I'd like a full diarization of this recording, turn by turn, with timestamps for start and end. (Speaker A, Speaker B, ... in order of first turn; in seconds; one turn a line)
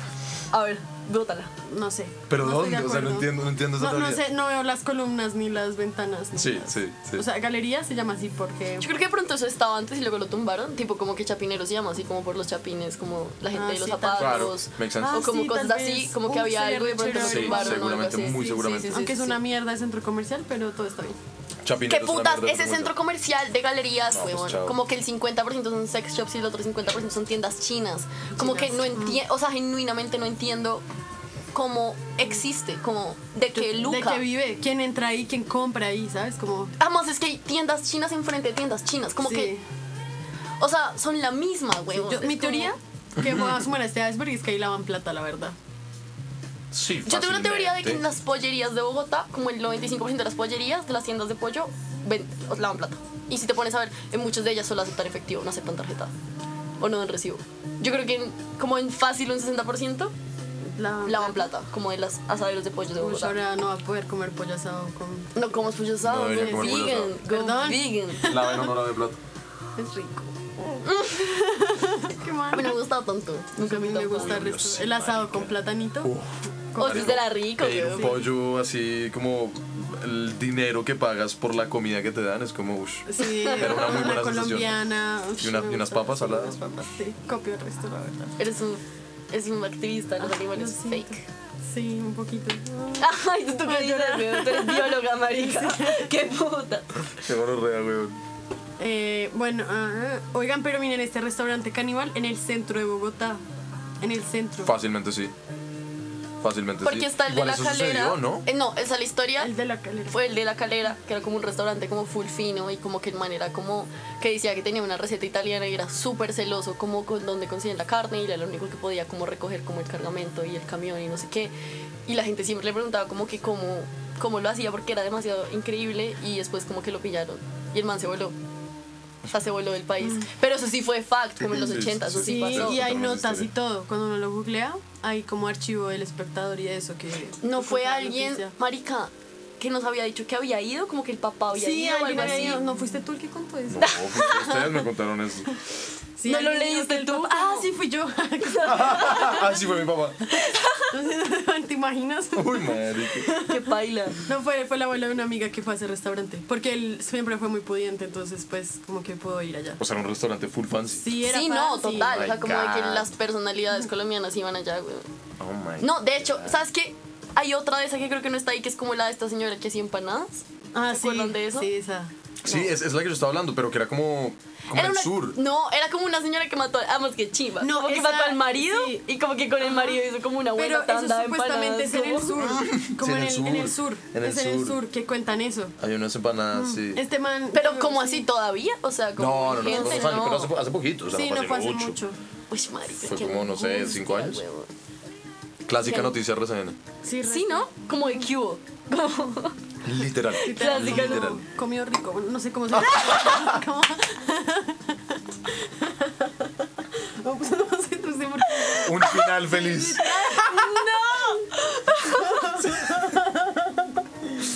Speaker A: 0.5-1.5
Speaker B: 1.7-8.9
Speaker C: 2.3-4.2
Speaker C: 6.3-7.3
Speaker A: 8.8-19.4
Speaker B: 13.5-14.4
Speaker C: 14.2-15.3
Speaker B: 15.0-21.2
Speaker C: 17.2-19.1
Speaker C: 21.6-23.0
Speaker A: 21.9-30.8
Speaker C: 24.1-24.8
Speaker B: 28.4-29.2
Speaker A: 31.5-34.3
Speaker B: 33.5-36.7
Speaker A: 36.8-39.5
Speaker B: 39.2-39.6
Speaker A: 40.6-42.7
Speaker B: 41.9-45.5
Speaker C: 43.2-43.6
Speaker C: 46.7-48.0
Speaker A: 47.0-56.1
Speaker A: 56.8-60.1
Speaker B: 60.7-61.5
Speaker A: 61.0-63.4
Speaker B: 63.0-65.5
Speaker A: 65.3-68.4
Speaker C: 66.0-67.2
Speaker B: 66.2-68.8
Speaker C: 68.3-69.2
Speaker B: 69.8-72.8
Speaker A: 70.8-71.3
Speaker A: 72.5-74.7
Speaker B: 73.6-76.1
Speaker C: 74.1-84.8
Speaker B: 76.7-78.2
Speaker A: 76.8-78.2
Speaker B: 83.1-88.3
Speaker A: 83.4-83.9
Speaker C: 85.4-86.6
Speaker A: 88.4-91.2
Speaker B: 90.2-93.1
Speaker A: 93.0-97.1
Speaker B: 93.6-96.1
Speaker C: 97.2-98.2
Speaker B: 98.8-103.4
Speaker B: 104.0-104.7
Speaker C: 104.6-105.3
Speaker C: 106.4-108.5
Speaker A: 106.8-109.5
Speaker B: 109.4-110.2
Speaker A: 110.1-121.5
Speaker A: 122.1-128.4
Speaker A: 129.3-132.9
Speaker B: 130.0-130.3
Speaker C: 131.5-133.5
Speaker B: 132.2-138.5
Speaker A: 137.4-142.7
Speaker B: 141.5-144.6
Speaker C: 143.7-145.6
Speaker A: 143.8-144.6
Speaker B: 146.2-149.7
Speaker A: 146.3-147.7
Speaker C: 148.6-150.2
Speaker A: 148.7-149.4
Speaker A: 150.3-150.9
Speaker B: 150.9-153.7
Speaker C: 152.3-153.3
Speaker A: 153.4-154.2
Speaker B: 154.3-159.8
Speaker C: 159.8-161.1
Speaker B: 161.0-162.3
Speaker A: 161.3-165.1
Speaker C: 161.9-163.1
Speaker C: 165.4-166.6
Speaker A: 165.8-171.7
Speaker B: 170.7-172.1
Speaker C: 172.4-175.4
Speaker A: 172.4-172.7
Speaker A: 174.7-182.4
Speaker B: 177.6-179.0
Speaker B: 179.6-180.0
Speaker B: 180.5-185.8
Speaker C: 182.4-184.8
Speaker C: 185.8-187.0
Speaker B: 186.5-188.3
Speaker A: 187.5-190.5
Speaker C: 189.2-192.0
Speaker B: 189.5-190.3
Speaker B: 191.1-192.2
Speaker A: 192.5-194.7
Speaker C: 193.0-194.4
Speaker C: 195.7-196.8
Speaker A: 195.8-196.2
Speaker B: 197.0-198.2
Speaker A: 197.2-199.6
Speaker C: 199.8-201.4
Speaker B: 200.4-210.9
Speaker A: 200.4-201.4
Speaker C: 202.7-203.5
Speaker C: 208.8-210.1
Speaker A: 210.0-212.8
Speaker B: 212.0-214.0